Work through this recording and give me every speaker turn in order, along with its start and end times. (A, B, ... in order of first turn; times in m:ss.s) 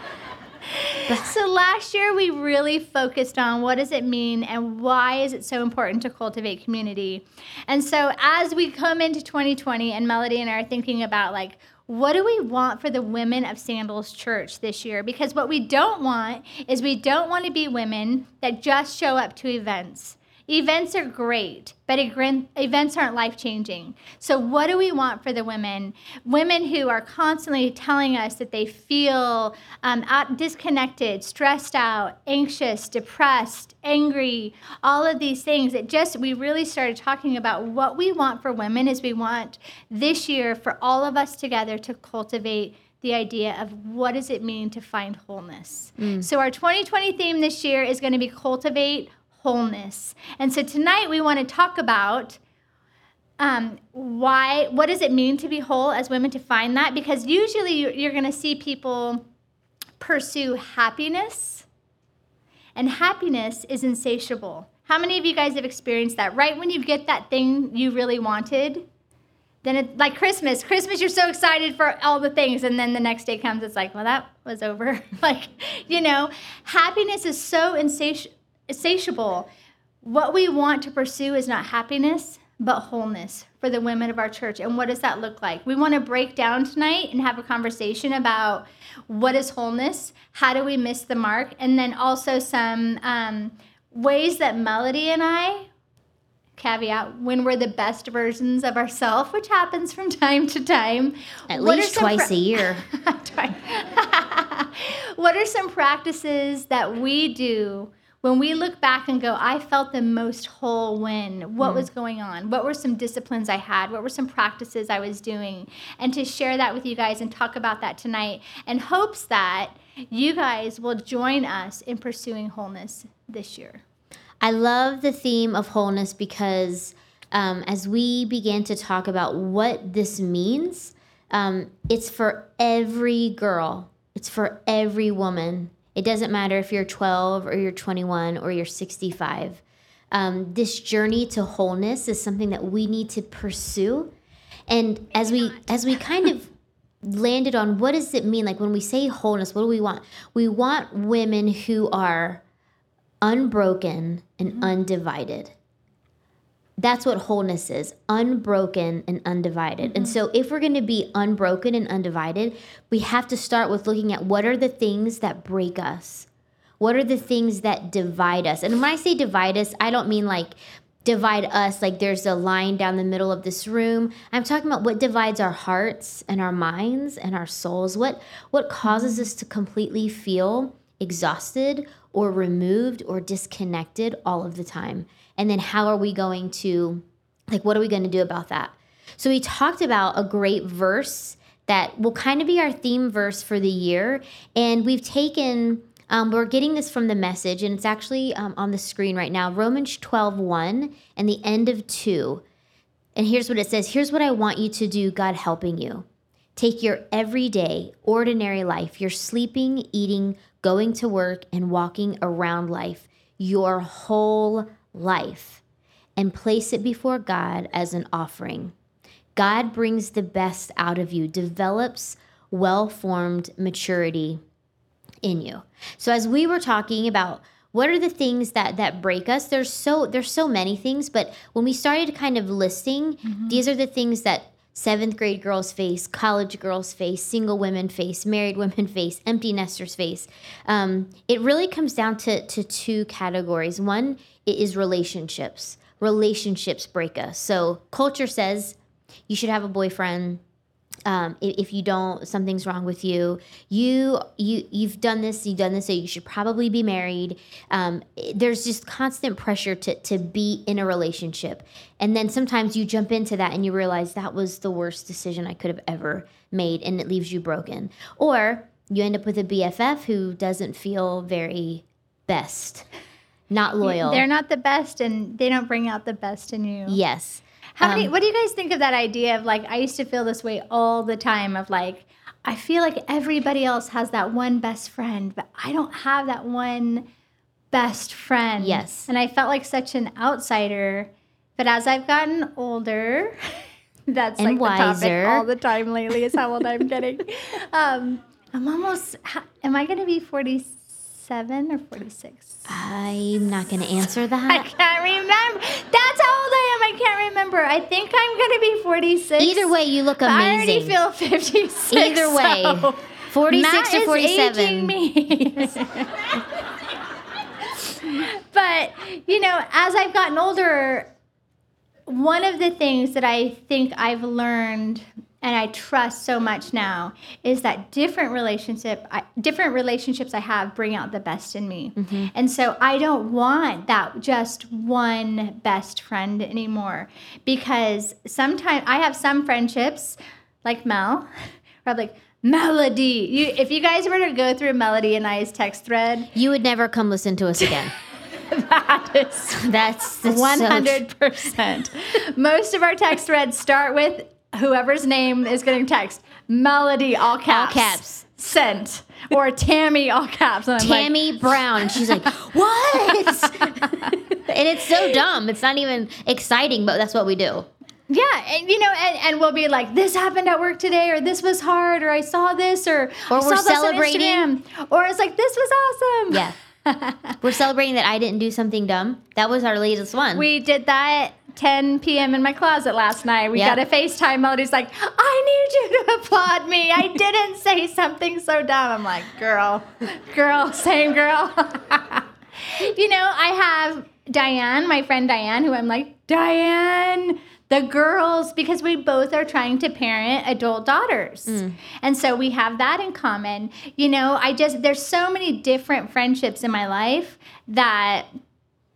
0:00.8-0:52.4 A
0:01.1-0:01.4 B
0:46.0-0:46.3 B
0:53.4-0:59.2 A
1:00.0-1:01.7 A
1:02.8-1:08.8 A
1:09.6-1:19.5 A
1:20.0-1:35.7 A
1:36.6-2:03.8 A
1:41.5-1:42.9 B
1:51.6-1:51.9 B
2:04.4-2:24.1 B
2:24.7-2:26.5 B
2:27.0-2:32.4 B
2:33.2-2:35.5 B
2:36.8-2:46.3 B
2:39.8-2:40.2 A
2:46.8-3:22.4 B
2:58.8-2:59.3 A
3:23.2-3:35.6 B
3:36.2-3:38.7 B
3:39.4-3:44.4 B
3:45.2-4:08.8 B
3:53.2-3:53.6 A
4:09.3-4:10.4 B
4:11.1-4:32.9 B
4:33.5-4:34.2 B
4:33.8-4:37.0 A
4:36.9-4:38.1 B
4:37.8-4:47.1 A
4:47.7-4:53.4 A
4:48.6-4:49.1 B
4:54.1-5:02.7 A
4:54.4-4:55.5 B
5:02.7-5:04.7 B
5:04.5-5:16.3 A
5:09.4-5:11.0 B
5:11.9-5:15.7 B
5:17.9-5:21.1 A
5:22.1-5:41.3 A
5:32.0-5:32.3 B
5:41.8-5:46.3 A
5:46.4-5:47.9 B
5:48.5-5:49.6 A
5:49.5-5:51.0 B
5:50.2-6:04.2 A
5:57.5-5:58.2 B
6:00.8-6:07.7 B
6:08.1-6:17.4 A
6:13.3-6:14.5 B
6:17.4-6:20.5 B
6:20.4-6:48.3 A
6:23.6-6:23.8 B
6:41.5-6:41.8 B